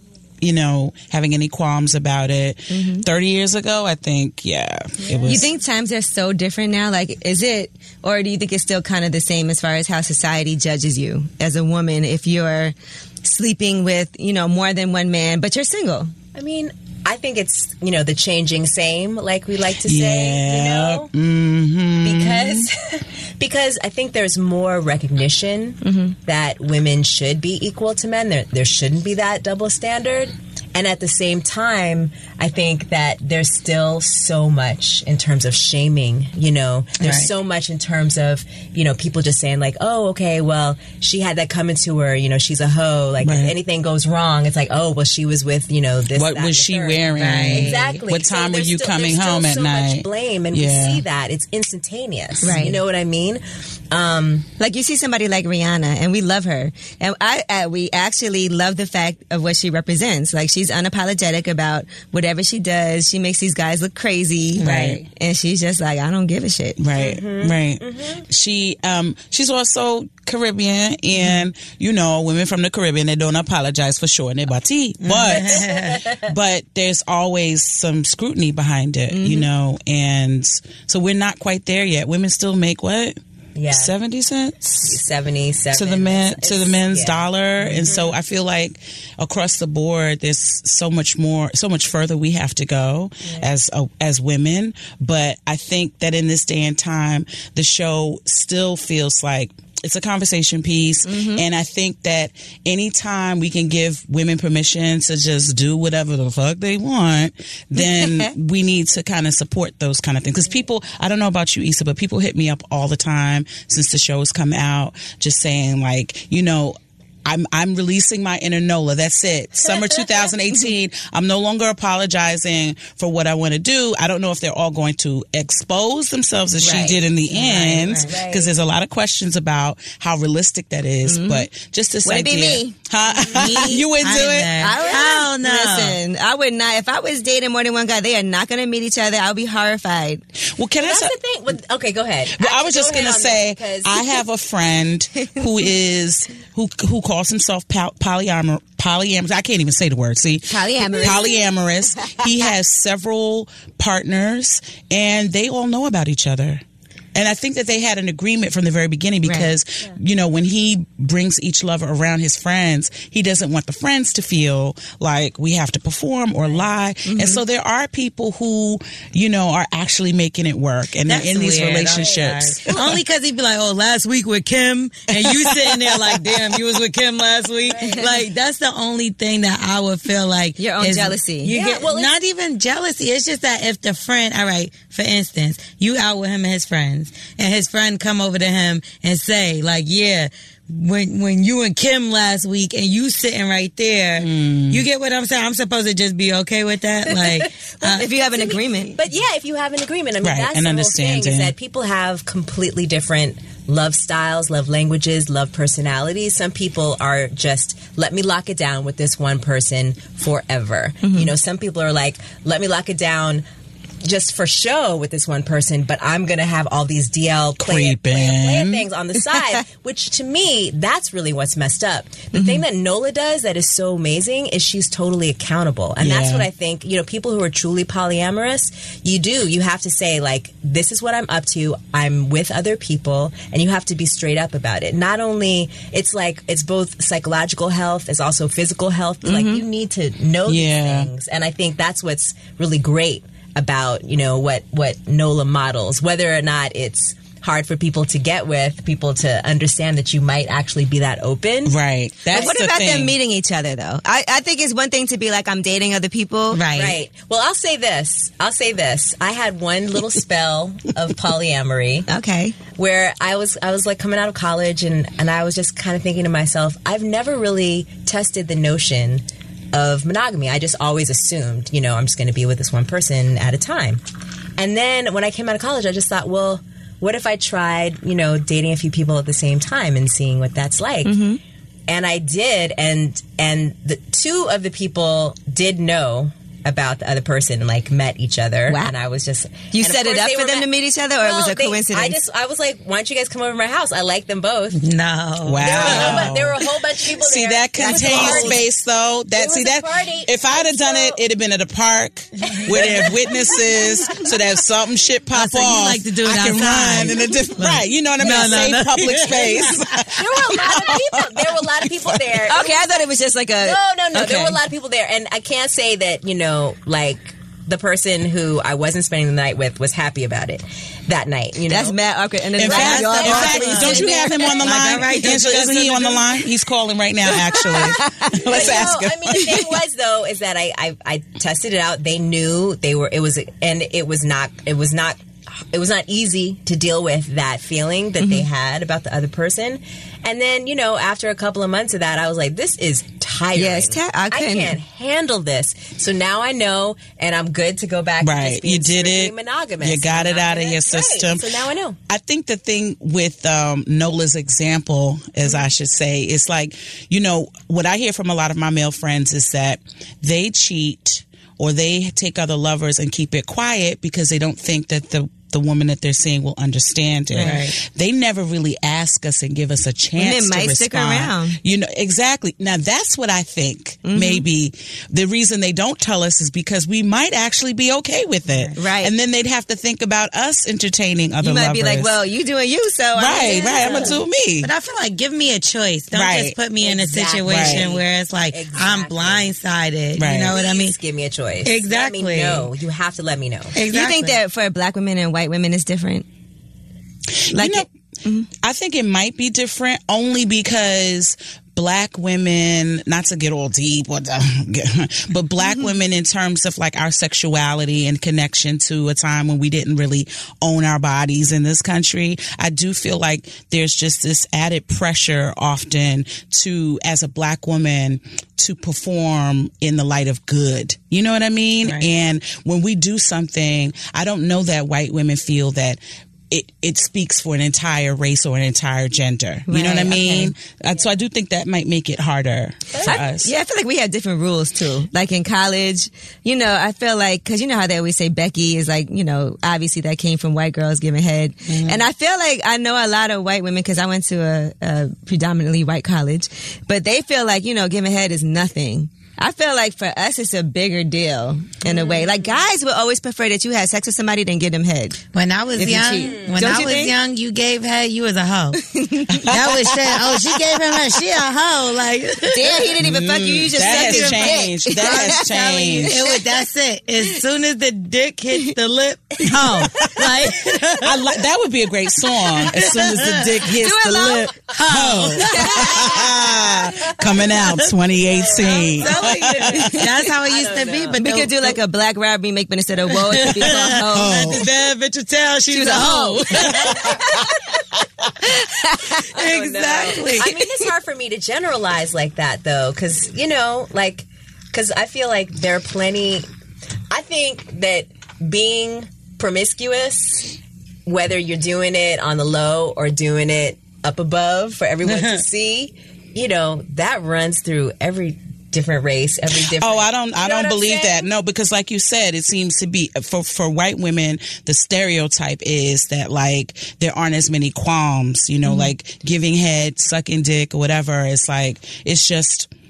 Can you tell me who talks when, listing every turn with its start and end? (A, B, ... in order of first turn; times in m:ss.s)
0:00.4-0:05.5 A
0:02.7-0:03.0 B
0:05.0-0:05.5 C
0:05.3-0:16.1 B
0:16.4-0:21.1 C
0:19.8-0:22.7 A
0:22.0-0:54.5 C
0:25.8-0:26.1 B
0:37.0-0:37.3 D
0:43.2-0:43.6 A
0:46.1-0:51.0 A
0:47.2-0:47.8 D
0:52.4-0:52.8 B
0:54.6-1:06.8 B
1:04.6-1:05.0 A
1:04.6-1:05.0 D
1:06.8-1:23.2 A
1:07.0-1:08.2 C
1:15.0-1:16.0 D
1:15.3-1:16.3 C
1:19.1-1:19.4 B
1:23.6-1:23.9 C
1:23.7-1:25.0 A
1:24.7-1:28.2 C
1:25.7-2:14.5 A
1:33.2-1:33.5 C
1:41.0-1:41.4 B
1:47.8-1:48.3 B
2:06.6-2:07.0 B
2:06.6-2:08.1 D
2:07.4-2:08.5 C
2:11.1-2:11.5 B
2:12.0-2:12.8 B
2:13.1-2:13.6 C
2:13.3-2:16.0 D
2:13.5-2:13.8 B
2:14.6-2:20.2 B
2:14.8-2:15.1 C
2:20.5-2:21.2 A
2:20.8-2:24.2 C
2:22.3-2:36.6 A
2:30.5-2:31.4 B
2:30.9-2:31.3 C
2:37.2-2:52.6 A
2:39.2-2:39.5 B
2:47.1-2:47.4 B
2:51.0-3:18.1 D
2:51.8-2:52.9 C
2:55.1-2:56.4 A
2:57.7-2:58.1 C
3:00.6-3:01.5 B
3:01.5-3:02.2 C
3:14.2-3:14.8 A
3:17.1-3:33.4 C
3:17.9-3:19.0 B
3:20.2-3:21.5 A
3:34.0-4:11.8 C
3:37.6-3:38.8 A
3:42.3-3:42.6 B
3:46.0-3:46.5 A
3:59.2-3:59.6 B
4:00.5-4:01.1 A
4:11.6-4:13.2 A
4:12.3-4:12.5 C
4:12.3-4:16.7 B
4:16.5-4:17.0 D
4:16.7-4:22.1 C
4:22.1-4:22.6 B
4:22.8-4:34.0 C
4:34.6-4:41.2 C
4:41.0-4:41.4 B
4:41.9-4:54.8 C
4:48.7-4:48.9 B
4:49.7-4:52.2 B
4:54.7-4:56.3 D
4:55.4-5:11.2 A
4:55.6-4:58.7 C
4:57.9-4:58.5 D
4:59.3-5:01.2 C
5:02.5-5:03.8 C
5:05.3-5:10.0 D
5:10.1-5:12.9 C
5:12.5-5:14.6 B
5:13.6-5:22.0 C
5:21.7-5:24.6 B
5:22.6-5:29.6 A
5:22.6-5:26.4 D
5:22.7-5:24.2 C
5:27.4-5:52.0 C
5:27.9-5:28.4 B
5:43.5-5:44.8 B
5:48.2-5:51.5 A
5:52.1-6:22.2 A
6:07.3-6:07.6 B
6:07.4-6:07.8 D
6:10.2-6:11.6 B
6:14.0-6:14.5 B
6:18.5-6:18.7 D
6:18.8-6:19.1 B
6:21.4-6:24.2 B
6:23.2-6:24.7 A
6:23.5-6:24.2 C
6:24.6-6:31.0 D
6:26.1-6:26.6 A
6:26.8-6:29.6 C
6:27.4-6:27.9 A
6:30.2-6:30.6 A
6:30.5-6:33.8 C
6:31.6-6:32.7 D
6:33.7-6:34.4 D
6:33.9-6:36.3 B
6:37.5-6:37.9 A
6:37.5-6:38.5 B
6:38.6-7:13.5 A
7:01.8-7:02.1 D
7:09.7-7:10.5 B
7:12.9-7:13.2 C
7:13.1-7:35.2 B
7:21.7-7:22.0 D
7:31.9-7:32.3 C
7:35.3-7:38.8 D
7:35.8-7:37.2 B
7:36.1-7:36.8 C
7:38.8-7:39.4 B
7:39.3-7:40.4 A
7:39.4-7:43.0 D
7:42.5-7:45.4 B
7:43.0-7:46.2 A
7:43.8-7:51.4 D
7:46.0-7:46.4 B
7:49.5-7:50.3 A
7:51.0-8:00.0 A
7:52.5-7:53.7 D
7:53.8-7:54.6 B
7:54.7-7:56.1 D
7:55.4-7:56.1 B
7:56.0-7:57.4 C
7:57.5-7:57.8 D
7:58.2-8:01.2 C
7:58.6-8:01.8 D
8:01.2-8:04.6 B
8:03.1-8:07.2 D
8:03.7-8:04.7 A
8:05.7-8:07.4 B
8:08.4-8:09.3 B
8:09.2-8:10.5 D
8:09.3-8:16.5 C
8:17.1-8:31.3 C
8:25.0-8:25.4 D
8:29.8-8:42.7 A
8:38.6-8:38.9 B